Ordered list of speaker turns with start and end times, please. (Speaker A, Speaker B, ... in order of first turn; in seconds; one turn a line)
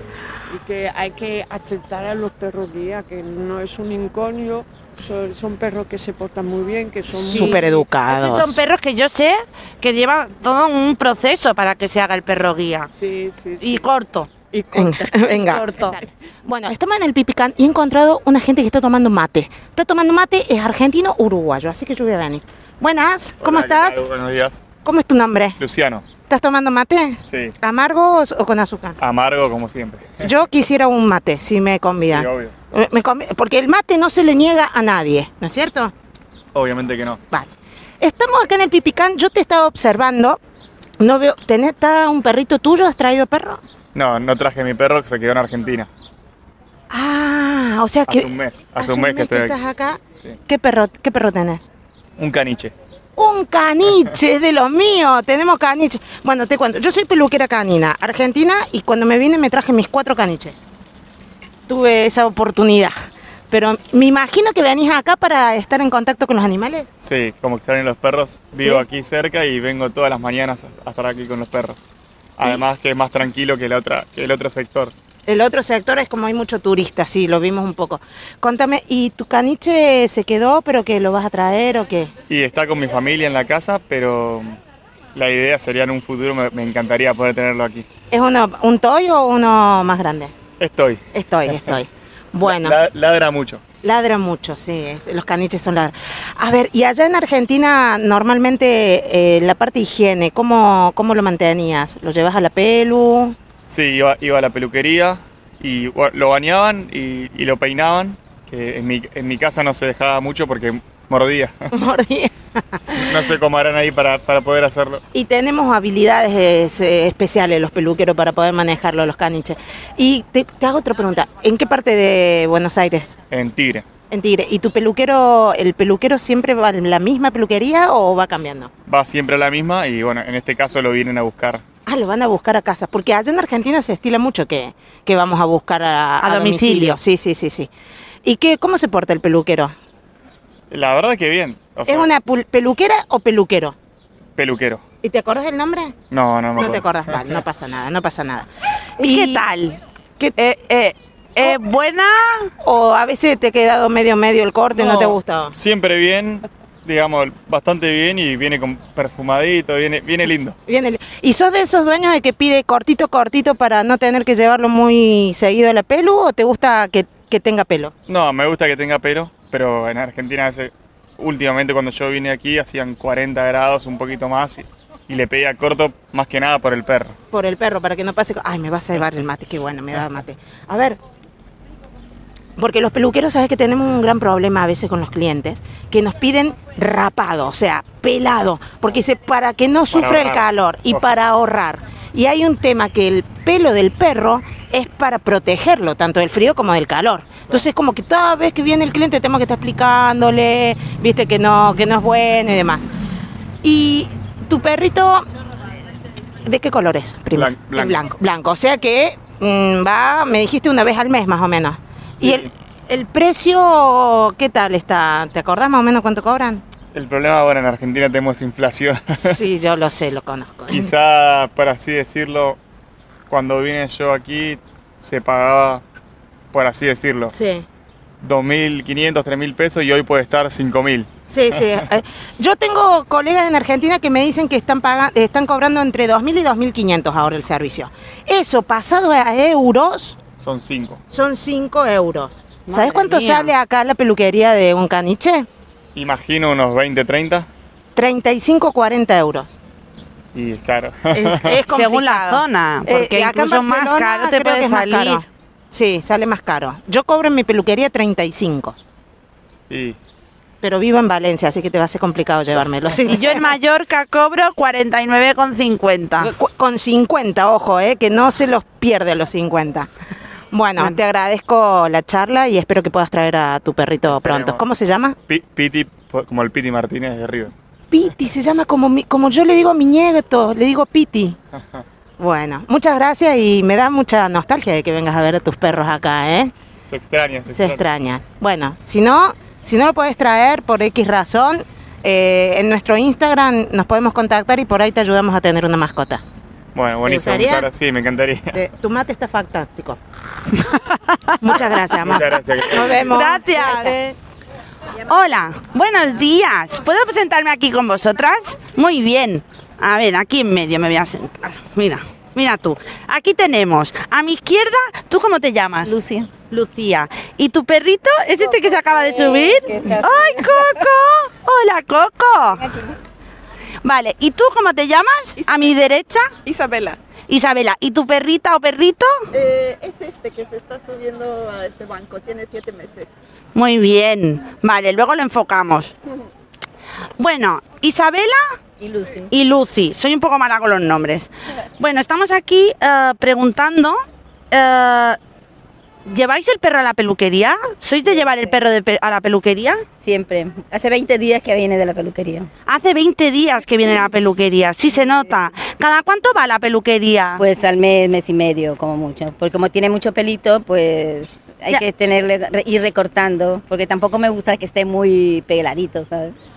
Speaker A: 0.5-7.8
Speaker B: 7.1-8.6
Speaker C: 7.3-12.9
Speaker A: 12.9-13.8
Speaker C: 13.6-14.3
Speaker A: 14.5-15.9
Speaker B: 14.7-24.0
Speaker C: 15.4-15.9
Speaker D: 23.4-24.7
Speaker B: 24.8-25.6
Speaker D: 25.6-26.1
Speaker B: 26.2-29.0
Speaker D: 27.3-27.5
Speaker D: 29.0-30.3
Speaker B: 30.2-35.9
Speaker D: 32.1-32.5
Speaker D: 36.5-37.2
Speaker B: 37.3-40.4
Speaker B: 41.0-43.6
Speaker D: 43.9-45.9
Speaker B: 46.9-51.7
Speaker D: 48.1-49.5
Speaker D: 52.2-52.7
Speaker B: 53.1-60.6
Speaker B: 61.7-62.9
Speaker B: 63.5-66.9
Speaker D: 67.0-71.8
Speaker B: 68.5-68.8
Speaker D: 72.4-74.9
Speaker B: 75.2-82.1
Speaker D: 82.3-84.6
Speaker D: 85.1-87.9
Speaker B: 88.1-90.3
Speaker D: 90.6-91.0
Speaker B: 91.1-92.8
Speaker D: 92.4-93.6
Speaker B: 93.8-103.3
Speaker D: 103.7-111.7
Speaker B: 111.7-113.2
Speaker D: 112.9-115.0
Speaker B: 115.1-123.2
Speaker D: 123.3-123.8
Speaker B: 124.1-128.7
Speaker D: 128.9-131.6
Speaker B: 131.8-137.7
Speaker C: 136.2-137.0
Speaker B: 138.2-139.7
Speaker D: 140.7-142.1
Speaker B: 141.8-143.7
Speaker D: 144.4-144.8
Speaker B: 145.0-146.0
Speaker D: 146.1-147.2
Speaker B: 146.6-149.4
Speaker C: 149.0-149.8
Speaker C: 150.4-152.5
Speaker B: 152.6-155.5
Speaker D: 155.5-160.6
Speaker B: 160.7-167.9
Speaker D: 168.1-177.2
Speaker B: 177.3-181.0
Speaker B: 182.6-202.8
Speaker D: 189.9-191.1
Speaker B: 203.6-205.3
Speaker B: 206.4-216.6
Speaker D: 207.3-208.0
Speaker D: 212.2-212.5
Speaker D: 216.9-219.4
Speaker B: 219.2-220.9
Speaker D: 220.7-222.6
Speaker D: 223.3-225.8
Speaker D: 226.5-227.3
Speaker B: 227.3-227.7
Speaker D: 228.2-231.1
Speaker B: 231.3-240.2
Speaker D: 240.4-241.0
Speaker B: 241.1-245.5
Speaker C: 242.7-243.5
Speaker D: 245.9-247.5
Speaker B: 247.9-249.5
Speaker D: 250.3-251.6
Speaker B: 251.1-258.8
Speaker C: 251.7-255.2
Speaker D: 259.7-260.0
Speaker B: 260.6-263.5
Speaker C: 263.1-266.3
Speaker B: 266.2-269.9
Speaker B: 270.5-275.1
Speaker D: 274.1-274.6
Speaker D: 275.3-277.5
Speaker B: 277.9-281.4
Speaker D: 281.5-281.8
Speaker B: 282.2-286.5
Speaker D: 286.9-287.8
Speaker B: 287.5-296.2
Speaker D: 296.7-298.6
Speaker B: 297.0-297.7
Speaker B: 298.5-300.0
Speaker C: 300.7-301.6
Speaker B: 301.4-304.0
Speaker D: 302.0-303.1
Speaker C: 303.1-304.1
Speaker C: 305.1-315.9
Speaker E: 315.8-316.3
Speaker C: 316.5-322.6
Speaker E: 318.4-320.9
Speaker C: 323.8-326.3
Speaker F: 325.4-325.7
Speaker F: 326.4-327.0
Speaker C: 327.3-329.2
Speaker F: 329.3-333.1
Speaker C: 333.5-335.9
Speaker C: 337.2-338.5
Speaker F: 338.8-339.3
Speaker C: 339.3-344.0
Speaker C: 344.5-345.2
Speaker C: 346.1-349.8
Speaker E: 348.1-348.5
Speaker E: 350.0-352.5
Speaker C: 352.6-357.4
Speaker E: 357.4-366.3